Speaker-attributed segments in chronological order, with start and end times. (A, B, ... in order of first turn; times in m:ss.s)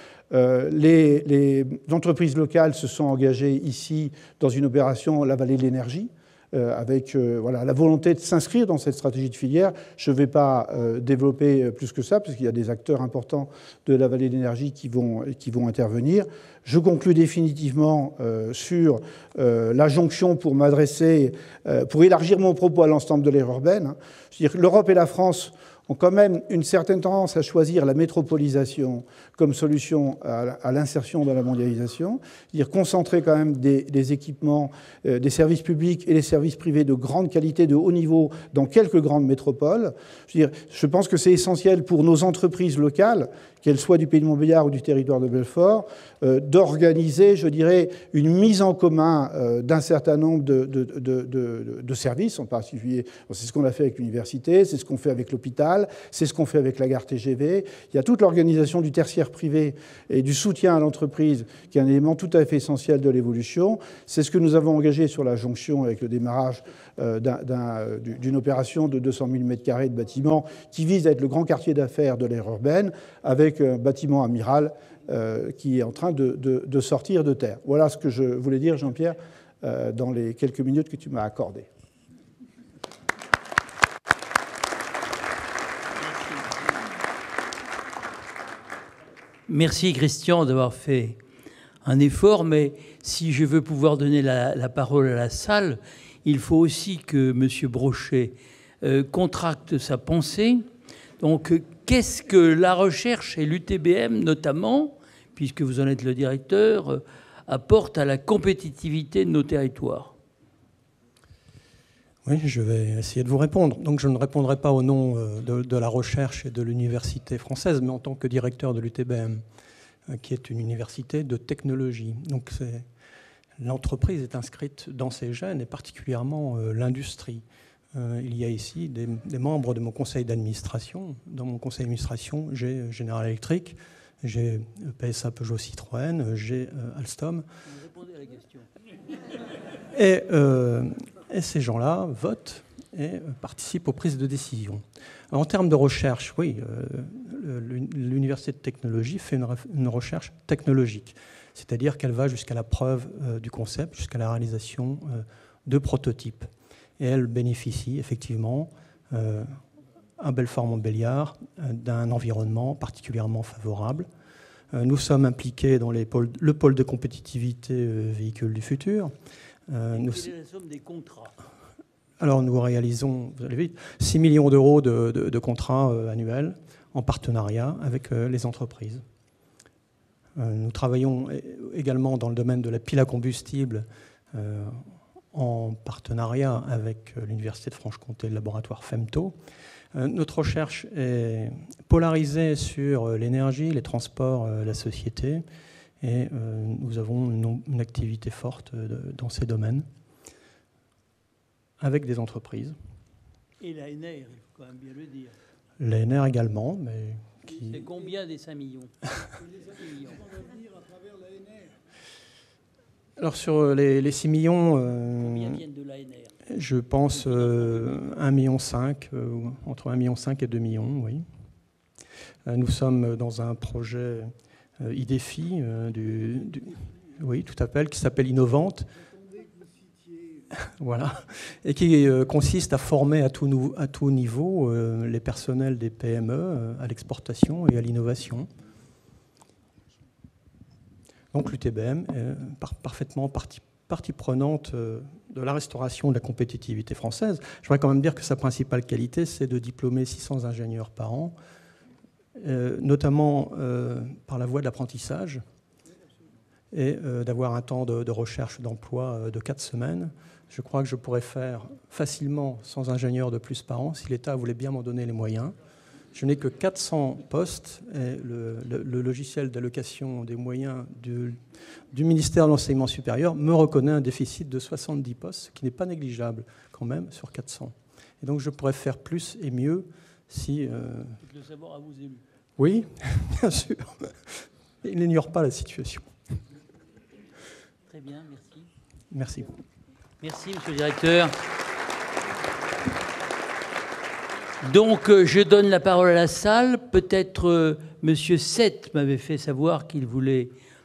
0:00.3-1:21.7 A
1:29.5-1:31.2 B
1:31.8-1:40.7 B
1:41.2-1:50.1 B
1:52.2-1:59.4 C
2:00.1-2:02.9 C
2:03.6-2:07.4 C
2:07.9-2:17.4 C
2:17.7-2:18.7 B
2:19.9-2:39.6 C
2:40.2-2:44.1 C
2:44.7-2:49.1 C
2:49.7-2:50.3 C
2:49.9-2:51.3 B
2:52.2-2:59.0 C
3:00.4-3:09.3 C
3:10.0-3:15.4 C
3:16.0-3:19.9 C
3:21.8-3:22.8 C
3:23.6-3:25.3 B
3:25.8-3:27.7 C
3:27.7-3:29.1 B
3:29.8-3:30.2 B
3:33.2-3:35.6 C
3:35.2-3:36.3 B
3:36.5-3:41.3 C
3:42.5-3:48.9 C
3:50.6-3:58.5 C
4:01.3-4:11.3 C
4:12.4-4:15.4 C
4:16.7-4:25.6 C
4:26.1-4:31.4 C
4:31.9-4:41.2 C
4:41.2-4:42.2 B
4:42.6-4:46.1 C
4:47.9-4:48.7 B
4:49.1-4:49.5 C
4:50.2-4:51.4 B
4:54.6-5:00.5 B